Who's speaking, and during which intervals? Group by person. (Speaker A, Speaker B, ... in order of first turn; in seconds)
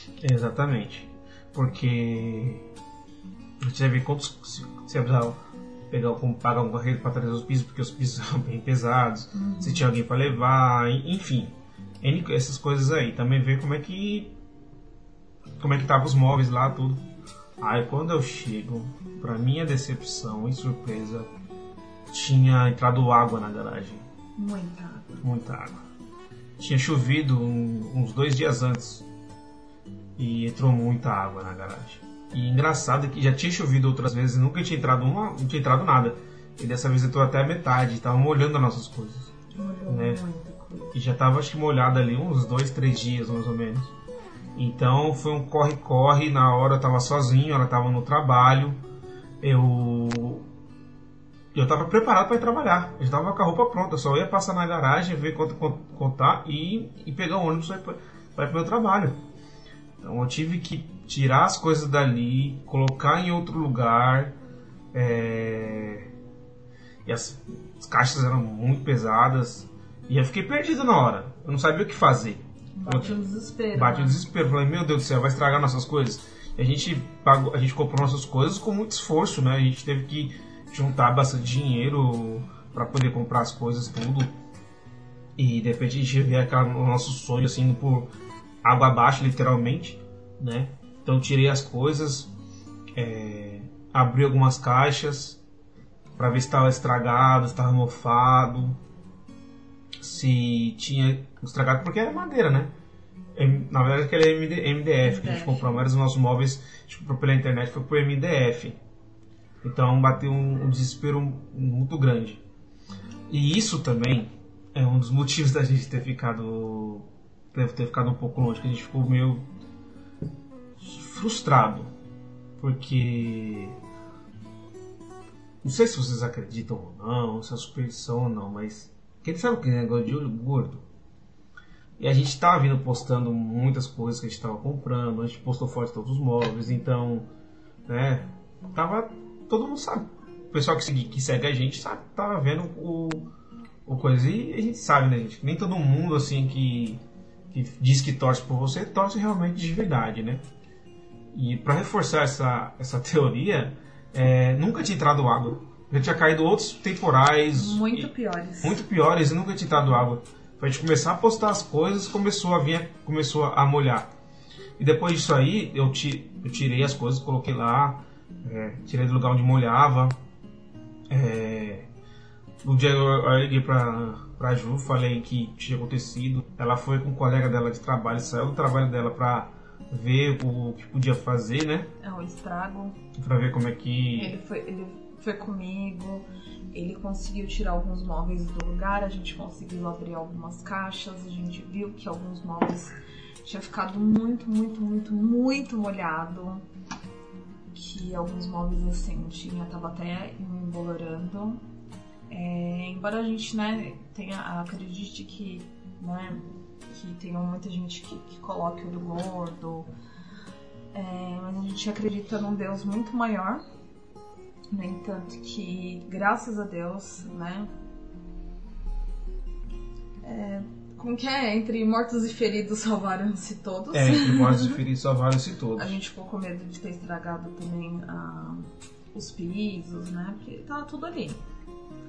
Speaker A: 0.2-2.7, 3.6-5.4, 5.9-14.3, 15.6-17.0, 17.6-21.3, 22.1-24.0, 25.2-25.8, 26.6-29.1, 30.2-39.3, 39.9-40.2, 40.9-43.9, 44.5-48.8, 49.4-50.5, 51.5-59.2, 60.0-64.3, 64.9-66.1, 67.0-73.2, 73.7-84.3, 85.4-88.1, 88.6-92.3, 92.9-95.4, 96.2-98.8, 100.0-102.7, 103.3-108.8, 109.6-112.4, 113.3-119.5, 120.8-121.9, 122.6-123.8, 125.6-130.8, 132.0-137.3, 137.9-143.3, 143.9-150.4, 151.3-158.1, 158.6-164.1, 164.8-170.2, 171.1-171.9, 172.6-181.9, 183.2-184.4, 223.9-226.0
Speaker B: 9.3-9.9, 24.4-25.2, 39.5-40.9, 72.8-74.2, 105.0-105.8, 157.6-158.8, 182.0-183.0, 184.1-196.7, 197.7-201.6, 202.3-209.9, 210.9-213.6, 214.7-217.7, 220.2-224.8, 225.8-231.4